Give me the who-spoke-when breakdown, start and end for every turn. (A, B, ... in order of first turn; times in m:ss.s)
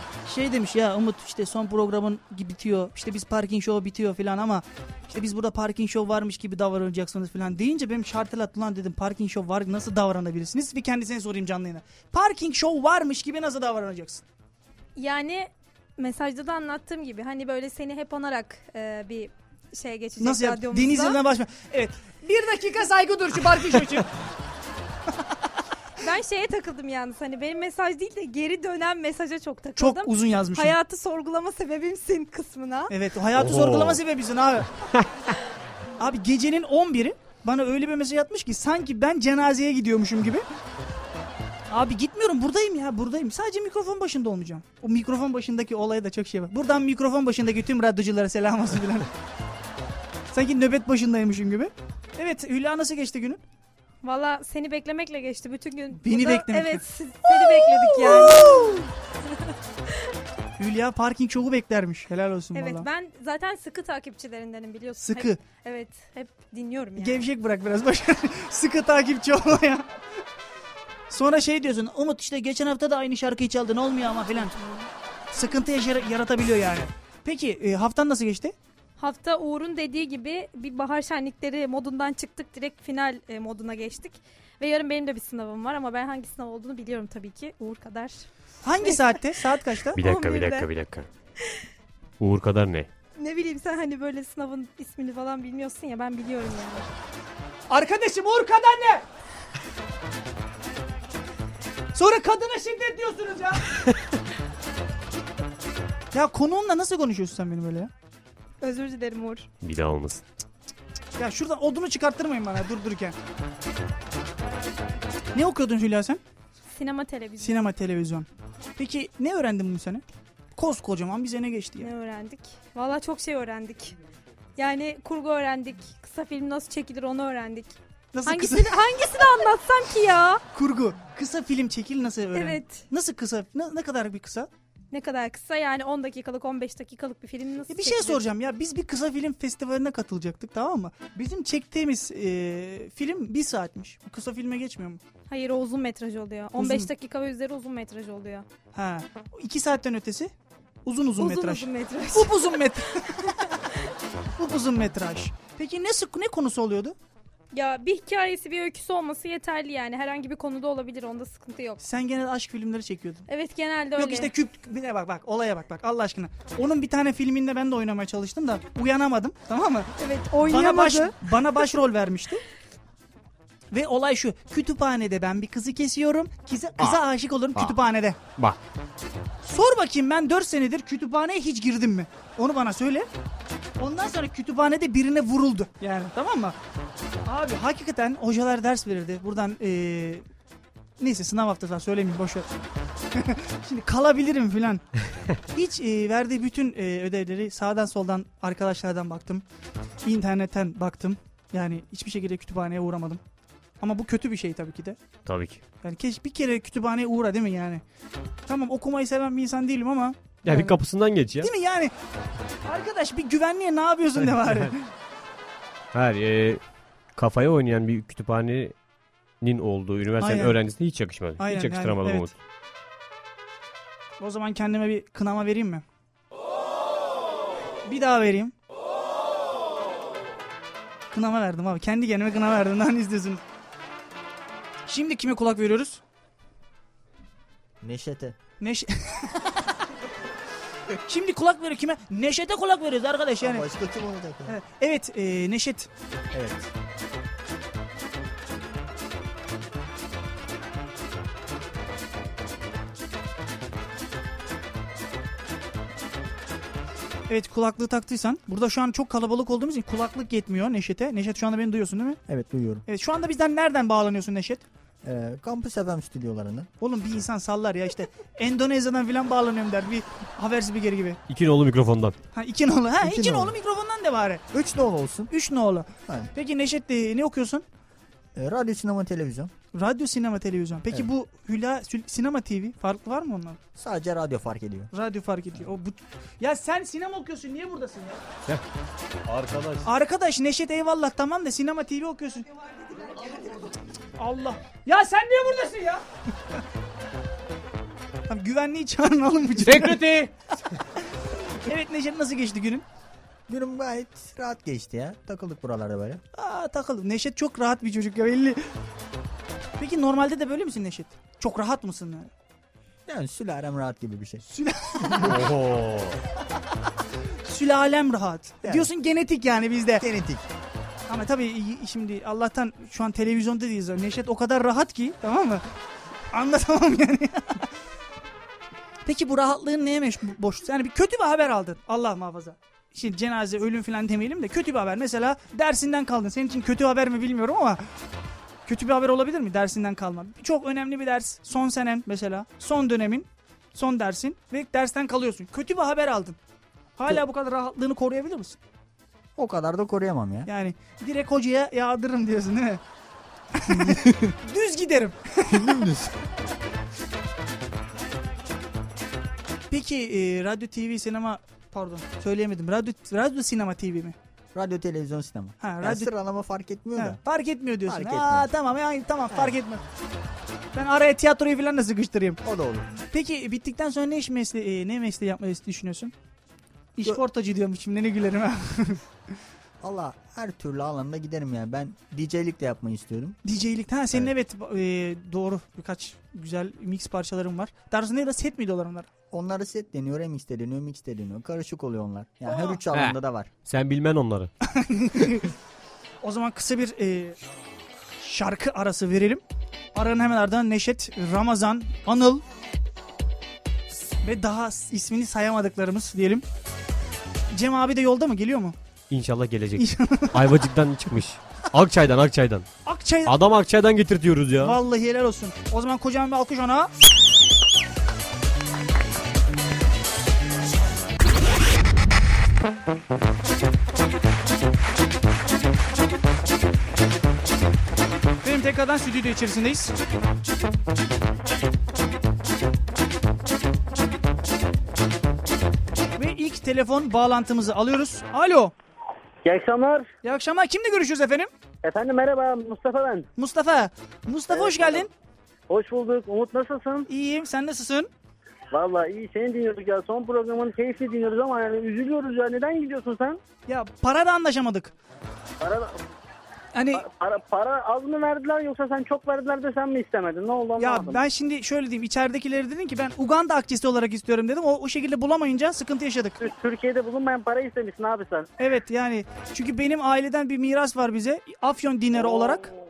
0:00.2-0:14.2 A
0:15.0-0:21.2 B
0:20.2-0:24.1 A
0:26.0-0:32.9 B
0:29.8-0:30.8 A
0:32.9-0:34.7 A
0:33.3-0:34.0 C
0:36.0-0:40.4 A
0:41.7-0:49.1 A
0:50.3-0:53.4 A
0:54.0-0:59.5 B
0:56.0-0:56.8 A
0:58.0-0:58.5 A
1:00.6-1:02.9 A
1:02.5-1:07.3 B
1:05.0-1:05.4 A
1:07.0-1:09.9 A
1:11.1-1:14.6 A
1:14.1-1:14.9 B
1:15.3-1:18.5 A
1:19.0-1:28.3 B
1:28.6-1:30.0 A
1:28.8-1:29.2 B
1:30.0-1:30.7 B
1:30.0-1:31.1 C
1:32.2-1:32.9 C
1:33.2-1:36.8 B
1:37.7-1:39.0 A
1:41.9-1:43.7 A
1:46.1-1:47.9 A
1:48.6-1:49.5 B
1:49.6-1:50.2 C
1:51.2-1:53.2 A
1:55.3-1:56.2 A
1:56.7-1:57.6 B
1:57.4-2:00.0 A
2:00.6-2:01.9 A
2:01.8-2:03.9 B
2:04.6-2:07.7 B
2:08.1-2:08.8 A
2:08.2-2:10.4 B
2:10.5-2:14.5 A
2:12.3-2:12.8 B
2:14.9-2:18.2 B
2:17.7-2:25.0 A
2:25.3-2:28.4 B
2:26.6-2:26.9 A
2:28.7-2:30.3 A
2:30.8-2:33.3 A
2:31.2-2:33.9 B
2:34.4-2:36.9 A
2:37.5-2:41.8 B
2:41.8-2:43.3 A
2:43.3-2:44.3 B
2:44.0-2:52.4 A
2:50.0-2:51.6 B
2:53.7-2:58.2 A
2:59.4-3:03.1 A
3:03.8-3:06.6 A
3:07.2-3:10.2 A
3:11.0-3:12.5 A
3:13.1-3:14.8 A
3:15.5-3:19.4 A
3:20.0-3:23.2 A
3:23.8-3:25.0 A
3:25.2-3:25.6 C
3:25.8-3:27.8 A
3:28.5-3:30.8 A
3:30.4-3:31.5 C
3:31.4-3:31.9 A
3:32.7-3:34.8 A
3:34.2-3:34.7 C
3:35.9-3:36.6 C
3:37.2-3:38.7 C
3:39.4-3:42.3 C
3:40.2-3:40.6 A
3:41.4-3:42.3 A
3:44.2-3:45.8 A
3:47.9-3:48.5 A
3:51.1-3:53.4 A
3:54.9-3:56.0 A
3:57.8-3:58.4 D
3:58.6-3:59.5 A
4:01.1-4:03.6 A
4:03.4-4:04.6 D
4:04.5-4:05.9 A
4:06.3-4:06.7 D
4:17.3-4:22.2 A
4:22.3-4:22.8 D
4:22.9-4:24.6 A
4:25.0-4:26.7 D
4:26.8-4:31.2 A
4:31.3-4:32.2 C
4:32.3-4:34.4 A
4:33.0-4:33.5 D
4:34.5-4:35.3 D
4:35.3-4:37.6 A
4:38.3-4:39.5 D
4:39.7-4:43.6 A
4:43.8-4:44.9 D
4:44.9-4:48.2 A
4:49.3-4:49.9 C
4:49.8-4:52.5 A
4:54.2-4:56.0 A
4:58.3-5:00.3 A
4:59.7-5:00.3 C
5:01.6-5:02.8 A
5:03.5-5:06.2 D
5:06.3-5:08.6 A
5:09.8-5:12.3 A
5:13.0-5:14.4 D
5:14.5-5:15.3 A
5:15.0-5:15.4 D
5:15.2-5:16.2 C
5:17.4-5:20.0 A
5:18.6-5:18.9 D
5:20.0-5:20.4 D
5:21.1-5:25.6 A
5:26.3-5:27.6 A
5:29.0-5:37.8 A
5:38.6-5:46.4 A
5:47.0-5:48.6 A
5:49.4-5:50.5 D
5:50.5-5:52.8 A
5:53.6-5:55.9 A
5:53.7-5:54.3 D
5:55.5-5:56.2 D
5:59.7-6:04.2 A
6:04.5-6:07.2 D
6:05.6-6:06.1 A
6:07.0-6:09.8 A
6:07.8-6:08.5 D
6:09.3-6:09.6 D
6:10.7-6:12.4 A
6:12.4-6:12.9 D
6:13.1-6:16.1 A
6:17.0-6:19.0 A
6:19.8-6:23.4 D
6:23.4-6:29.1 A
6:29.3-6:33.5 D
6:32.4-6:32.8 A
6:32.9-6:34.5 C
6:34.7-6:35.5 A
6:36.2-6:37.4 A
6:38.2-6:39.4 A
6:39.9-6:42.4 A
6:44.2-6:46.4 A
6:47.5-6:48.8 A
6:49.1-6:52.7 C
6:49.8-6:50.4 A
6:52.8-6:53.3 A
6:53.2-6:54.8 C
6:54.6-6:56.9 A
7:08.4-7:09.9 A
7:16.2-7:18.7 A
7:19.4-7:20.1 E
7:20.2-7:21.5 A
7:21.8-7:23.3 E
7:23.4-7:25.1 A
7:24.5-7:25.1 E
7:25.7-7:27.1 E
7:27.1-7:28.1 A
7:28.7-7:33.4 E
7:33.7-7:34.9 A
7:35.6-7:36.0 E
7:36.7-7:37.0 A
7:36.9-7:41.2 E
7:40.8-7:46.4 A
7:46.4-7:48.5 E
7:48.6-7:52.7 A
7:52.1-7:52.8 E